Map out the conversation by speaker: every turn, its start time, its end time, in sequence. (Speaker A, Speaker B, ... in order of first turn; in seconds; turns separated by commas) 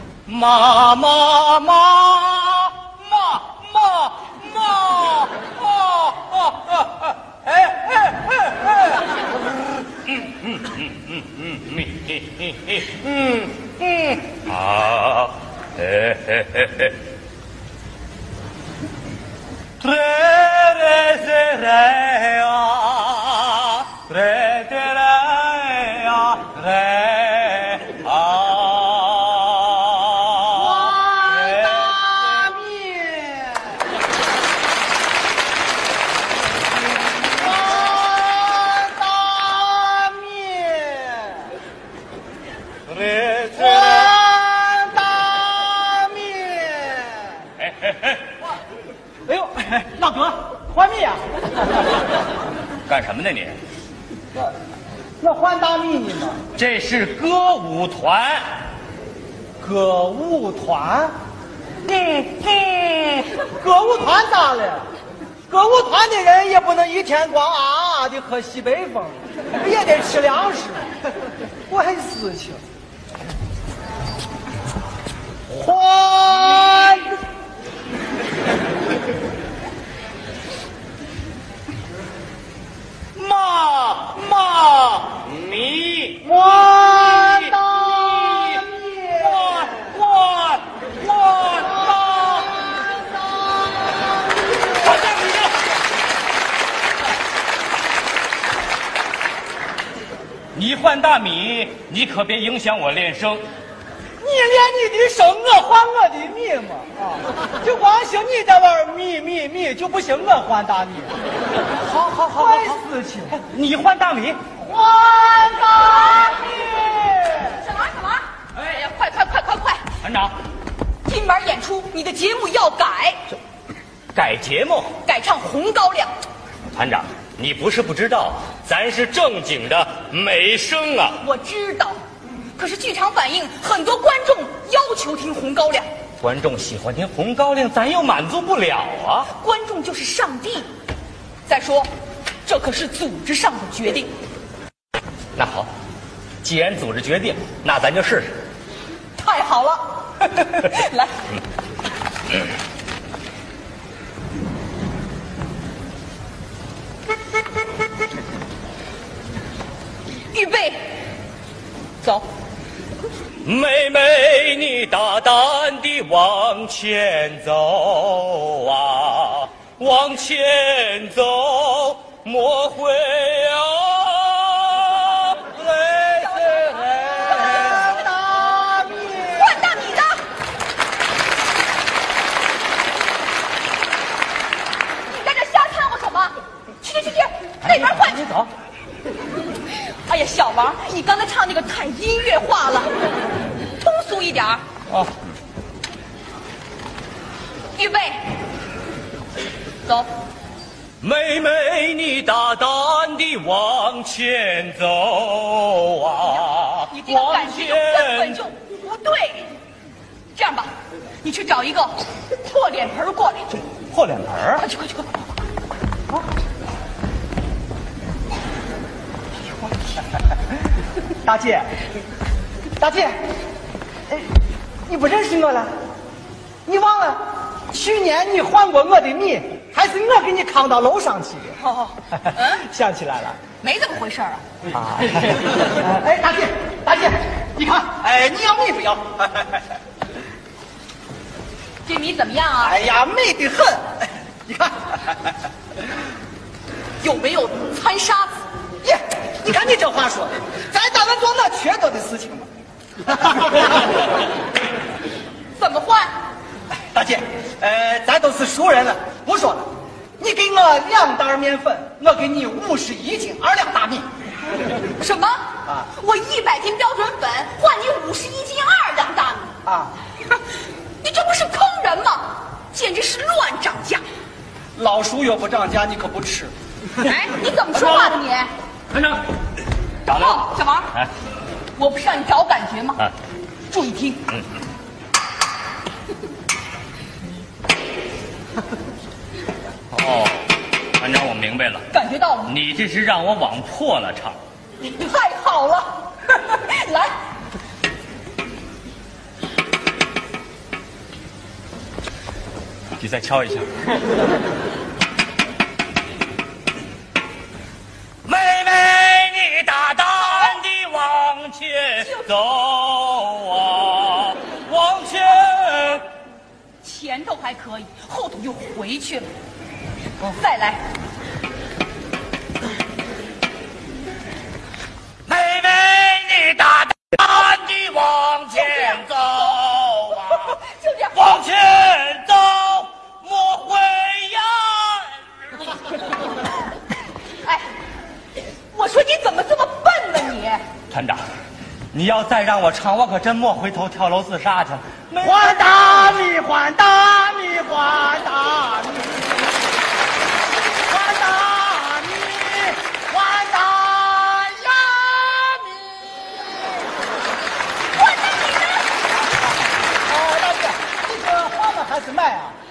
Speaker A: 0.3-9.0, Speaker A: 10.1-17.0, Speaker A: 19.8-32.0, Speaker B: 30.5-33.9, Speaker B: 37.4-41.5, Speaker A: 42.9-44.1, Speaker B: 43.5-47.5, Speaker A: 47.6-48.2, Speaker B: 49.3-51.2, Speaker A: 52.9-53.6, Speaker B: 55.2-56.4, Speaker A: 56.6-58.5, Speaker B: 59.6-61.1, Speaker A: 61.9-63.2, Speaker B: 63.4-64.9, Speaker B: 65.5-70.9, Speaker B: 71.7-72.6, Speaker B: 75.5-77.2, Speaker A: 83.2-92.7, Speaker B: 86.2-89.7, Speaker B: 93.4-94.0, Speaker A: 94.8-95.5, Speaker A: 100.5-103.4, Speaker B: 104.2-111.2, Speaker B: 111.8-113.4, Speaker A: 112.2-112.8, Speaker A: 113.3-114.4, Speaker B: 114.6-117.6, Speaker C: 117.5-119.9, Speaker A: 120.0-120.3, Speaker C: 121.0-123.2, Speaker A: 124.1-124.9, Speaker C: 125.0-126.1, Speaker A: 126.7-131.2, Speaker C: 131.2-132.0, Speaker C: 132.6-135.9, Speaker A: 136.2-139.3, Speaker C: 139.3-140.7, Speaker C: 141.5-141.9, Speaker C: 142.4-144.1, Speaker A: 145.3-145.7, Speaker A: 146.4-148.4, Speaker C: 149.2-151.2, Speaker C: 160.3-161.0, Speaker C: 162.0-162.3, Speaker A: 163.4-177.9, Speaker C: 176.1-178.0, Speaker B: 177.2-179.6, Speaker C: 179.3-180.2, Speaker C: 185.1-188.2, Speaker A: 187.6-188.5, Speaker C: 189.7-192.9, Speaker C: 193.8-194.6, Speaker C: 197.8-198.3, Speaker A: 201.0-208.4, Speaker C: 206.9-209.5, Speaker C: 210.3-210.7, Speaker C: 211.2-213.6, Speaker A: 213.9-214.7, Speaker C: 214.6-215.2, Speaker B: 221.2-221.7, Speaker B: 222.8-223.2, Speaker B: 224.9-225.7, Speaker B: 226.7-231.6, Speaker C: 231.6-232.6, Speaker B: 232.1-233.4, Speaker C: 233.6-234.4, Speaker B: 234.7-239.6, Speaker C: 241.8-242.8, Speaker B: 242.6-245.3, Speaker C: 247.0-248.3, Speaker B: 248.8-252.5, Speaker B: 253.0-253.9, Speaker C: 255.6-256.1, Speaker B: 256.9-259.7, Speaker B: 260.2-264.1, Speaker C: 265.0-269.5, Speaker B: 269.7-269.9, Speaker C: 271.0-274.0, Speaker B: 274.8-276.5, Speaker C: 277.0-278.5, Speaker A: 278.9-279.2, Speaker A: 280.1-281.1, Speaker C: 280.1-280.9, Speaker C: 281.8-283.1, Speaker C: 283.7-284.2, Speaker A: 289.9-291.9, Speaker C: 291.9-292.6, Speaker A: 292.5-294.4, Speaker C: 294.8-297.2, Speaker A: 303.0-303.9, Speaker A: 308.2-316.1, Speaker C: 312.0-312.3, Speaker C: 316.8-319.3, Speaker C: 320.2-320.8, Speaker A: 325.3-330.6, Speaker C: 328.6-329.0, Speaker C: 330.3-331.4, Speaker A: 331.1-335.7, Speaker C: 338.7-340.6, Speaker A: 340.9-341.2, Speaker A: 341.9-346.0, Speaker B: 345.2-349.3, Speaker B: 350.9-356.8, Speaker C: 357.9-358.9, Speaker B: 360.1-362.6